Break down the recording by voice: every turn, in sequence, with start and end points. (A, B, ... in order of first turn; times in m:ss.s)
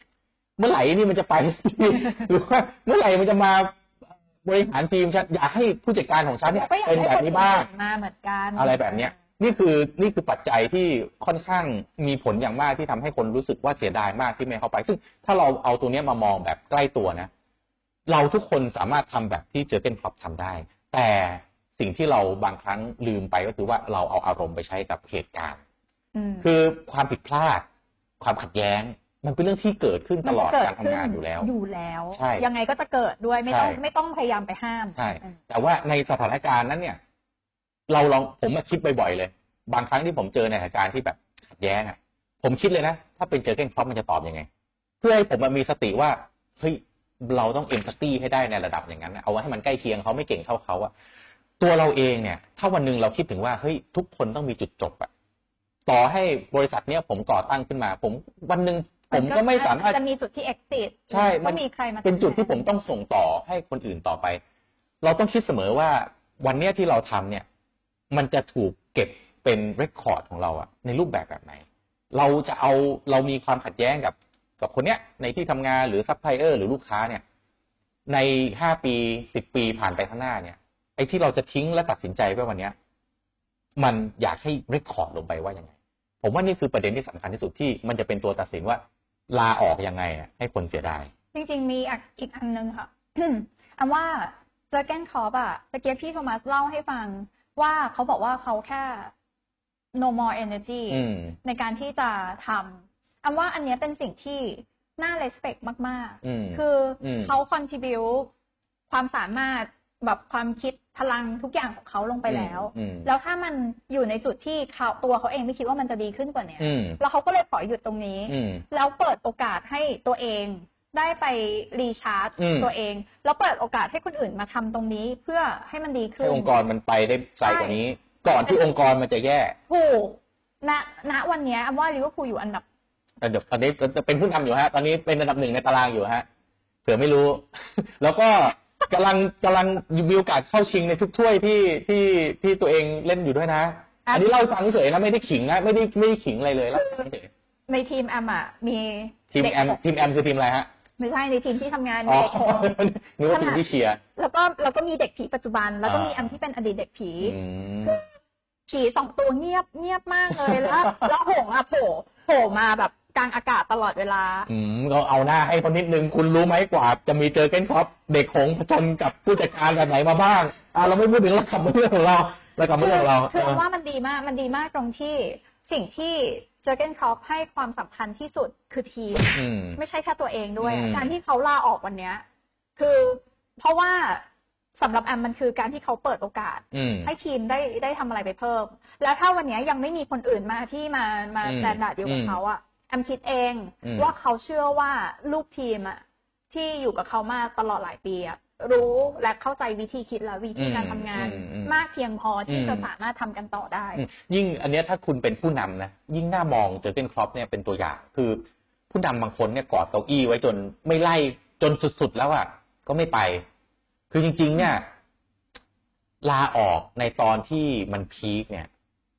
0:00.6-0:03.8 A
0:04.4-0:07.7 A
0:06.5-0:09.2 B
0:08.6-0:17.3 A
0:18.1-0:25.6 A
0:26.2-0:26.5 B
0:26.4-0:27.6 A
0:28.2-0:31.5 A
0:30.2-0:35.4 B
0:32.2-0:32.5 A
0:33.5-0:33.8 A
0:35.0-0:37.0 A
0:37.9-0:44.5 A
0:45.0-0:50.9 A
0:51.6-0:55.1 A
0:55.9-1:00.0 A
0:59.1-1:02.7 B
1:01.1-1:04.4 A
1:05.0-1:07.4 A
1:08.1-1:17.2 A
1:18.1-1:22.8 A
1:23.8-1:31.1 A
1:31.3-1:39.1 B
1:40.0-1:48.3 B
1:40.9-1:41.4 A
1:46.2-1:47.3 A
1:48.9-2:06.6 B
1:52.3-1:53.1 A
1:56.6-1:57.0 A
1:58.3-1:58.6 A
2:02.4-2:02.7 A
2:06.2-2:09.6 A
2:07.4-2:07.8 B
2:08.3-2:08.6 B
2:09.7-2:12.6 B
2:13.2-2:16.2 A
2:16.8-2:27.3 A
2:24.1-2:24.3 B
2:26.7-2:27.1 B
2:27.7-2:29.8 B
2:29.3-2:30.7 A
2:31.0-2:32.7 B
2:32.1-2:34.0 A
2:33.3-2:33.6 B
2:34.2-2:38.1 B
2:35.8-2:36.4 A
2:37.2-2:38.0 A
2:38.7-2:44.5 B
2:40.5-2:41.0 A
2:44.5-2:53.6 A
2:52.8-3:02.2 B
2:59.3-2:59.8 A
3:00.6-3:01.1 A
3:02.8-3:04.2 B
3:04.8-3:24.0 B
3:06.7-3:07.1 A
3:11.4-3:12.4 A
3:13.8-3:14.1 A
3:20.6-3:21.8 A
3:22.5-3:22.9 A
3:24.0-3:33.4 A
3:34.1-3:34.9 A
3:36.2-3:38.7 A